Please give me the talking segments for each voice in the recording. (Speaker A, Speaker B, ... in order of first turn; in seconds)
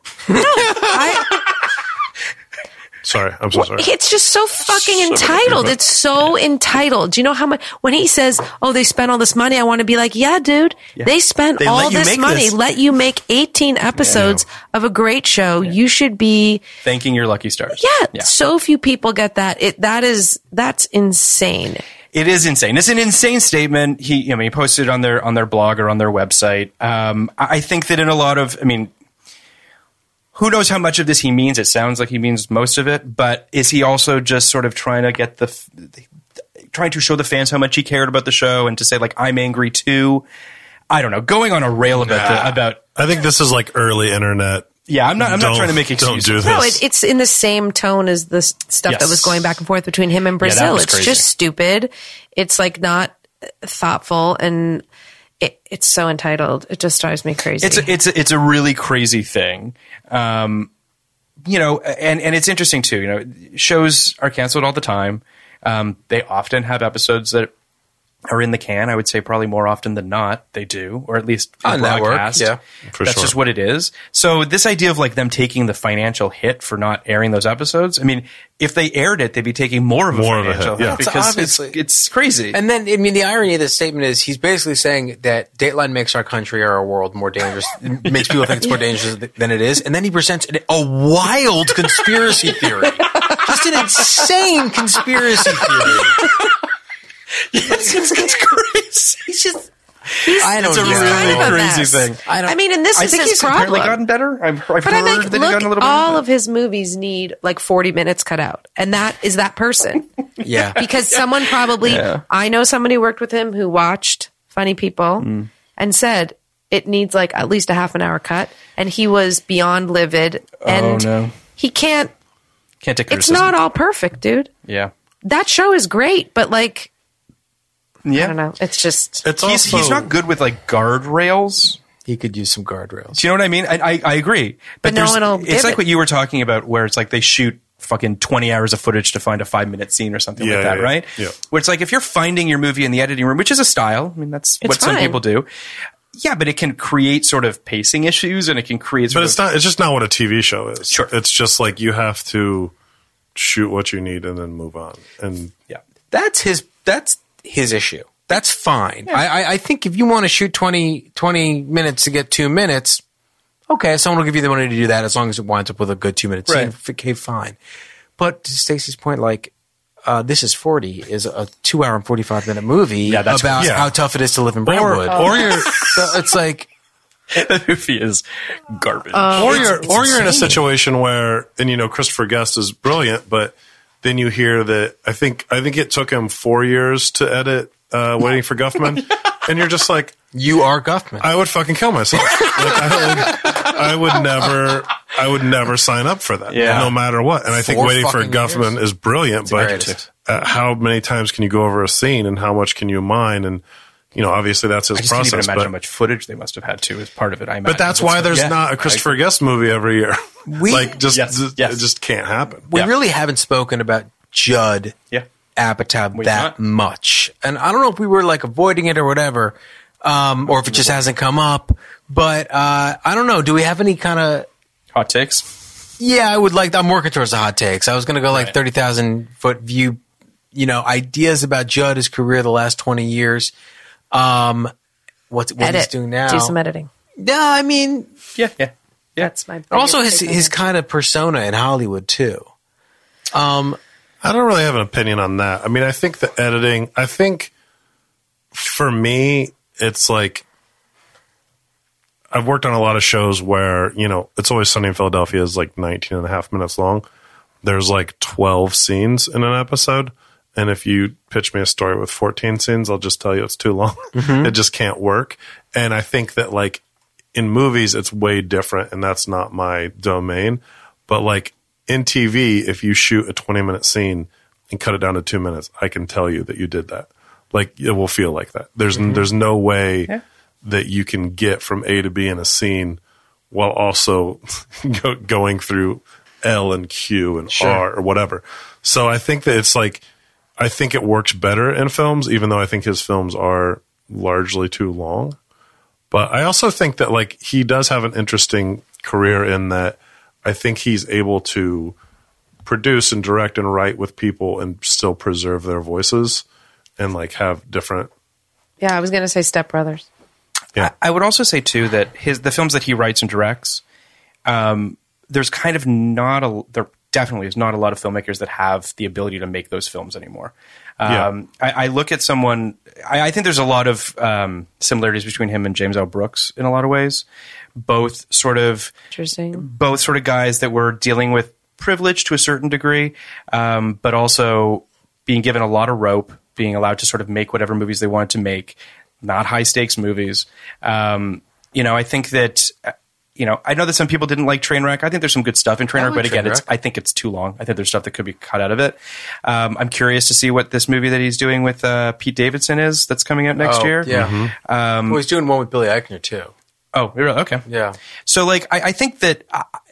Speaker A: 0.3-1.4, 3.5-16.6, 17.8-21.8, 46.4-54.8, 55.4-57.9, 100.2-104.0, 104.8-110.0, 110.8-122.1, 123.1-124.5, 125.2-126.9, 128.1-129.2, 134.8-135.8, 144.6-145.2, 179.1-180.6, 235.6-236.9, 239.2-240.5, 308.8-310.1, 329.1-329.6
Speaker B: 3.0-3.9, 14.1-14.4, 42.0-46.8, 72.9-73.3, 80.1-81.0, 129.2-130.1, 140.4-141.3, 149.1-152.7, 153.3-155.5, 173.6-173.9, 174.6-175.9, 179.3-190.2, 191.2-203.6, 204.1-205.7, 207.6-212.7, 244.2-247.5, 248.5-250.4, 252.3-257.0, 257.6-266.8, 267.3-280.1, 280.6-290.0, 290.6-295.4, 296.1-301.9, 302.6-306.4, 307.0-308.1, 354.1-354.5
Speaker C: 5.2-5.7, 11.0-12.5, 16.8-18.3, 22.1-28.9, 30.3-36.0, 36.7-40.2, 40.9-42.8, 44.9-46.4, 48.9-49.5, 50.4-51.2, 57.6-60.7, 61.4-67.5, 68.3-82.6, 88.1-88.5, 93.1-94.1, 95.5-96.5, 97.5-99.6, 100.4-102.2, 103.0-106.2, 111.8-112.2, 115.2-115.5, 120.6-121.3, 122.8-123.5, 124.7-124.9, 128.0-128.3, 129.4-131.8, 133.1-145.5, 146.1-149.4, 173.1-173.8, 175.5-175.9, 177.3-180.5, 196.5-196.9, 199.5-200.0, 204.9-209.1, 211.1-211.8, 216.1-216.5, 220.6-221.0, 224.9-225.5, 238.3-239.3, 310.8-313.8, 314.4-327.2, 327.8-328.9, 329.6-355.2, 356.9-357.6, 358.3-359.7
Speaker D: 41.9-42.5, 71.6-72.6, 80.8-81.8, 82.5-96.2, 97.7-98.1, 100.4-102.5, 110.4-110.8, 132.0-133.2, 156.1-163.0, 163.7-167.6, 168.2-169.5, 170.0-176.7, 190.3-191.3, 196.5-196.9, 197.5-198.8, 199.5-200.0, 210.4-211.0, 212.7-215.0, 215.6-224.5, 226.0-230.0, 230.5-233.5, 234.1-234.7, 235.3-236.5, 237.2-238.1, 239.7-242.5, 243.3-243.8, 264.1-264.5, 287.5-287.8, 345.9-346.7, 353.6-354.3, 355.1-356.5, 357.6-358.0